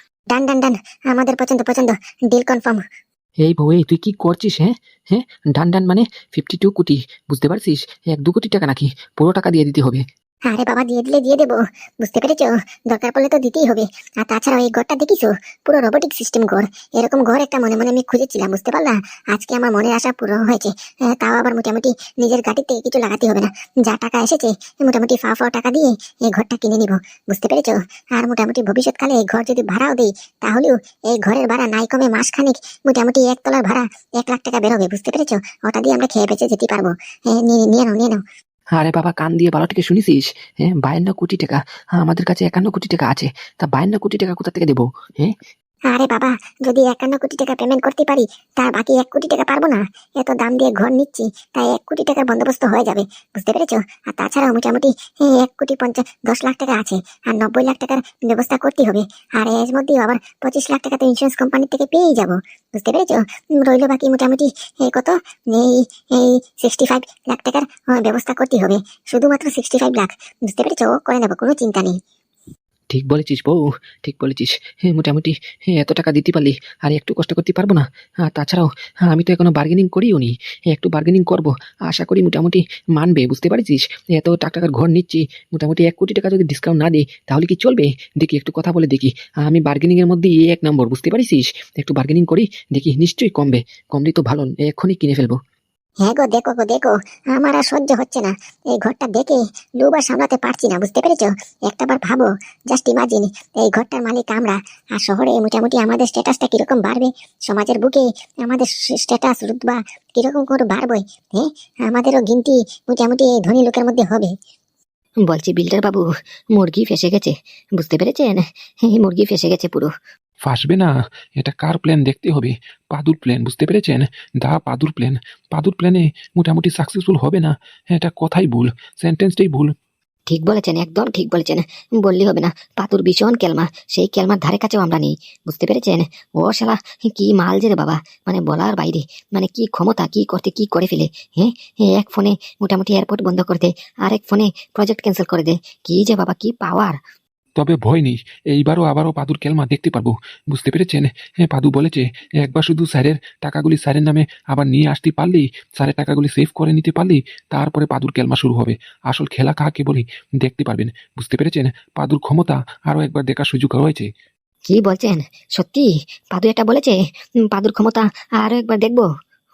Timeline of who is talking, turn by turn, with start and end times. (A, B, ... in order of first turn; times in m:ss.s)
0:00.3-0:02.8 A
0:03.4-0:10.0 B
0:10.5-0:38.2 A
0:38.7-0:45.4 B
0:45.9-1:12.0 A
1:12.9-1:35.4 B
1:36.0-1:54.3 A
1:55.3-1:56.0 C
1:56.6-1:59.9 C
2:00.4-2:09.7 D
2:10.3-2:27.0 C
2:27.6-2:44.1 D
2:44.7-2:47.0 C
2:47.5-2:49.1 C